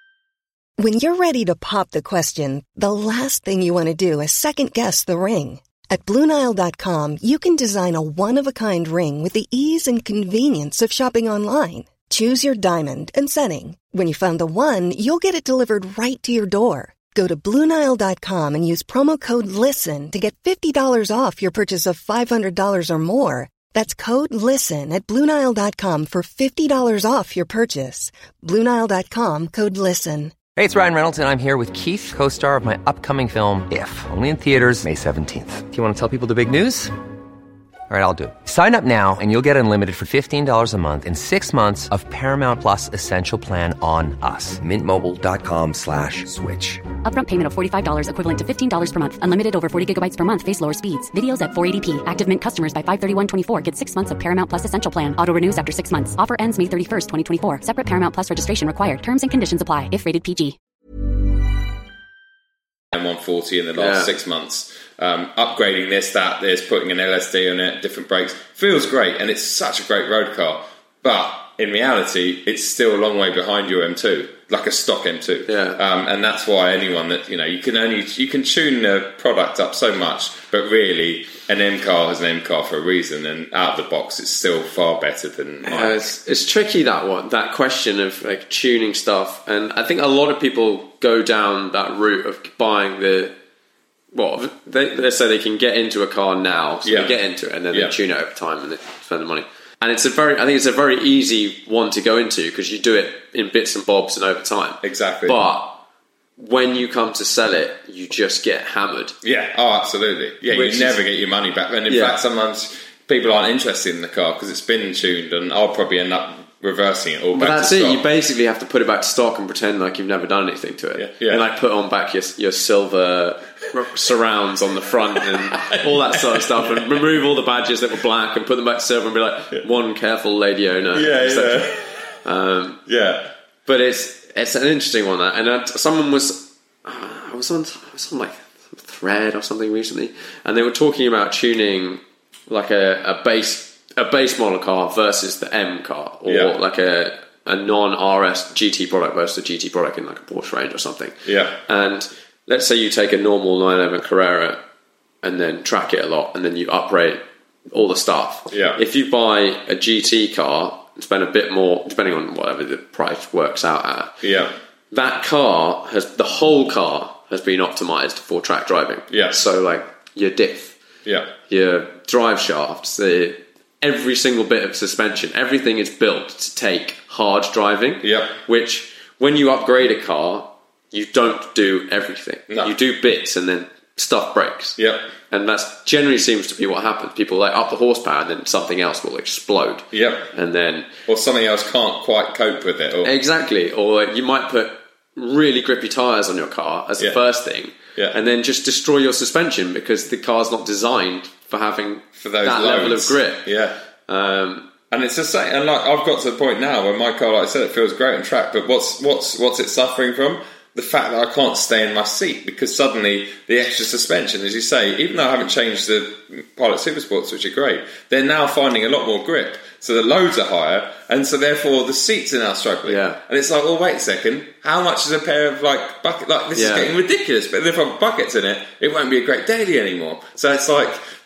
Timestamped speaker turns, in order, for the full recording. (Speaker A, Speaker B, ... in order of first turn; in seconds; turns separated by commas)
Speaker A: 0.8-30.4, Speaker B: 30.5-36.9, Speaker B: 37.9-46.8, Speaker C: 47.0-60.6, Speaker D: 62.9-86.1, Speaker E: 63.8-64.1, Speaker E: 75.5-75.8, Speaker E: 85.6-93.3, Speaker E: 94.1-105.8, Speaker D: 96.8-97.2, Speaker D: 104.8-105.4, Speaker E: 106.4-109.1, Speaker D: 109.2-118.0, Speaker E: 110.5-111.0, Speaker E: 111.9-112.2, Speaker E: 117.3-131.7, Speaker D: 121.0-121.4, Speaker D: 125.5-127.1, Speaker D: 130.9-131.8, Speaker E: 132.2-132.8, Speaker D: 132.9-133.3, Speaker E: 133.7-154.6, Speaker D: 146.2-146.5, Speaker D: 151.2-151.6, Speaker E: 155.2-164.1, Speaker D: 158.5-158.8, Speaker D: 164.2-164.5, Speaker E: 164.9-170.7, Speaker D: 169.1-169.4, Speaker D: 171.0-171.3, Speaker E: 171.5-184.8, Speaker D: 178.0-178.4, Speaker D: 182.5-182.7, Speaker D: 184.8-185.1, Speaker E: 185.3-190.9, Speaker D: 189.9-190.3, Speaker D: 191.1-193.1, Speaker E: 193.0-203.4, Speaker D: 202.2-203.7, Speaker E: 204.1-204.7, Speaker D: 204.9-231.0, Speaker E: 222.8-223.2, Speaker E: 226.5-226.9